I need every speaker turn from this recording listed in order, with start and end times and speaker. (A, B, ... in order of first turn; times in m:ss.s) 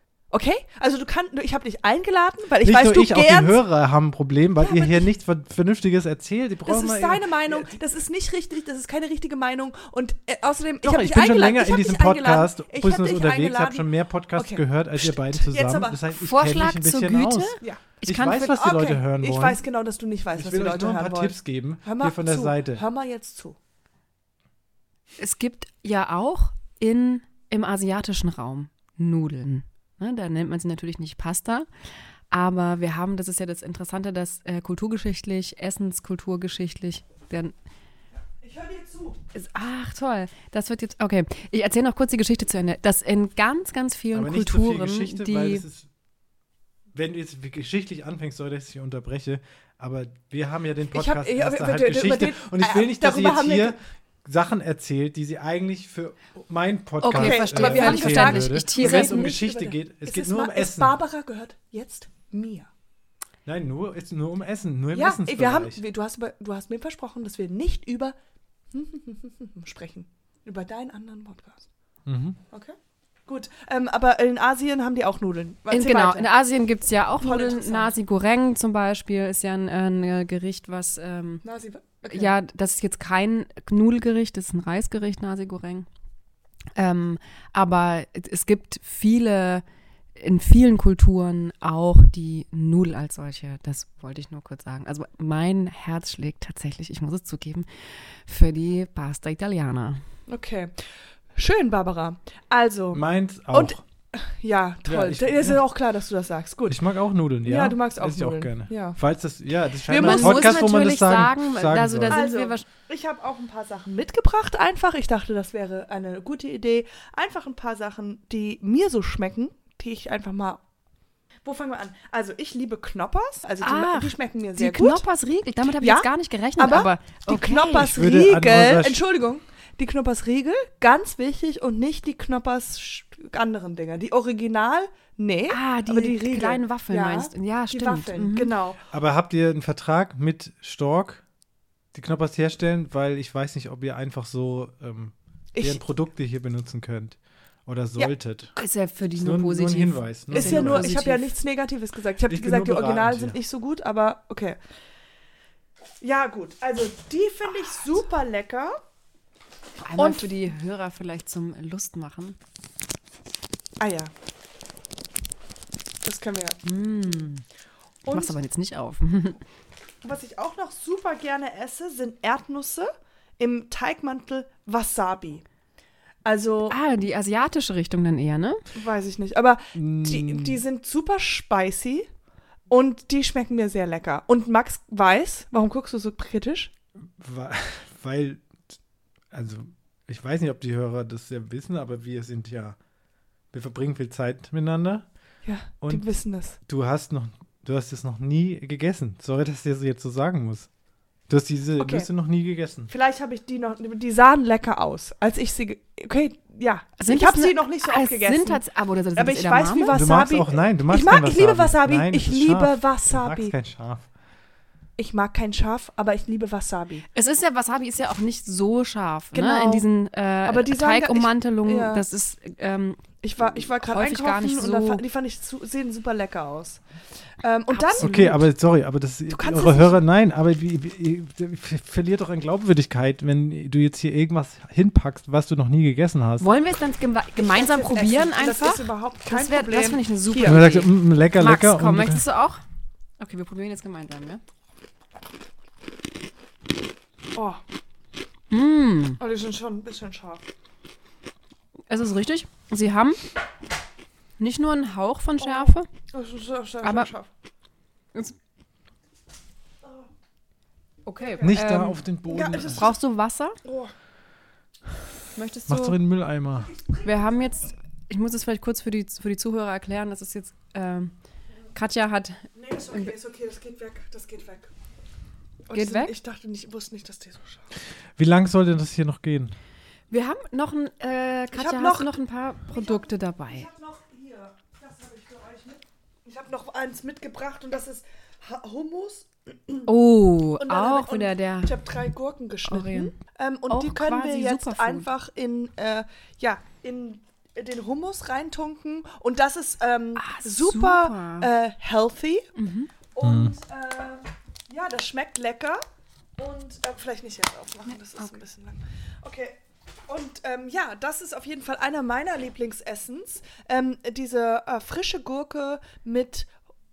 0:00.3-0:03.6 A
0:02.6-0:07.7 B
0:04.6-0:05.1 A
0:06.6-0:16.0 A
0:10.8-0:19.6 B
0:16.1-0:18.6 C
0:17.6-0:17.9 A
0:18.5-0:23.6 A
0:20.4-0:22.8 B
0:25.2-0:31.7 C
0:32.3-0:37.6 C
0:38.4-0:39.2 A
0:39.3-0:45.7 C
0:44.1-0:45.9 B
0:46.9-1:01.0 B
0:50.9-0:53.8 A
0:57.0-0:59.2 C
0:57.1-1:02.7 A
1:03.4-1:05.8 B
1:04.9-1:08.2 A
1:08.7-1:11.7 A
1:12.1-1:12.4 B
1:13.3-1:16.3 A
1:15.7-1:21.4 C
1:17.2-1:18.0 A
1:21.4-1:22.3 A
1:22.1-1:25.9 C
1:26.8-1:29.6 C
1:30.2-1:40.0 C
1:40.3-1:40.8 A
1:41.4-1:46.8 A
1:42.9-1:43.8 B
1:44.8-1:45.6 B
1:46.7-1:52.2 B
1:47.4-1:49.0 A
1:49.8-1:50.7 A
1:49.9-1:52.7 C
1:52.1-2:00.6 A
2:01.4-2:05.1 A
2:03.6-2:07.9 C
2:05.8-2:18.8 A
2:07.8-2:09.0 B
2:15.5-2:18.5 C
2:18.9-2:21.2 B
2:21.9-2:28.6 B
2:25.5-2:25.8 A
2:28.6-2:31.3 C
2:29.2-2:30.9 B
2:30.3-2:34.6 A
2:32.3-2:33.4 B
2:36.0-2:38.8 A
2:39.8-2:42.4 C
2:40.0-2:40.4 A
2:43.8-2:44.1 A
2:46.0-2:46.6 A
2:46.6-2:47.4 C
2:48.0-2:48.4 A
2:48.1-2:49.4 C
2:50.0-2:55.4 A
2:56.2-2:56.8 A
2:56.7-2:58.6 C
2:58.8-3:02.1 A
2:59.8-3:00.6 B
3:02.7-3:06.7 A
3:07.2-3:08.6 B
3:09.3-3:12.8 B
3:13.5-3:15.1 B
3:15.4-3:16.6 A
3:15.8-3:16.0 B
3:16.7-3:20.7 B
3:21.3-3:22.9 B
3:21.8-3:22.1 A
3:22.9-3:33.6 A
3:27.0-3:30.0 C
3:29.9-3:34.1 B
3:35.0-3:37.0 A
3:37.1-3:45.0 C
3:39.3-3:39.9 A
3:40.4-3:42.0 A
3:43.2-3:46.8 A
3:47.4-3:48.2 A
3:47.7-3:48.4 C
3:48.0-3:56.5 B
3:49.3-3:50.0 A
3:56.4-4:02.6 C
3:57.4-4:00.6 A
4:00.4-4:02.2 B
4:03.2-4:04.4 C
4:07.3-4:07.6 A
4:08.5-4:09.2 C
4:09.2-4:10.4 A
4:11.9-4:13.2 C
4:14.4-4:15.9 C
4:15.4-4:17.3 A
4:16.8-4:17.1 C
4:21.0-4:22.0 C
4:21.2-4:21.5 A
4:21.4-4:22.9 B
4:22.3-4:22.9 A
4:22.6-4:23.6 C
4:23.6-4:23.9 A
4:25.4-4:26.0 C
4:25.7-4:26.7 B
4:26.7-4:27.0 A
4:27.0-4:31.1 C
4:31.7-4:33.1 C
4:32.6-4:34.7 A
4:35.7-4:37.7 A
4:35.7-4:36.2 C
4:38.2-4:39.6 B
4:40.1-4:43.7 C
4:41.5-4:49.9 A
4:49.9-4:51.8 C
4:50.6-5:02.5 A
4:52.7-4:53.1 C
4:53.7-4:55.1 C
5:00.2-5:01.5 C
5:02.6-5:02.9 C
5:03.1-5:05.8 A
5:03.2-5:03.5 B
5:06.4-5:16.5 A
5:07.8-5:08.4 C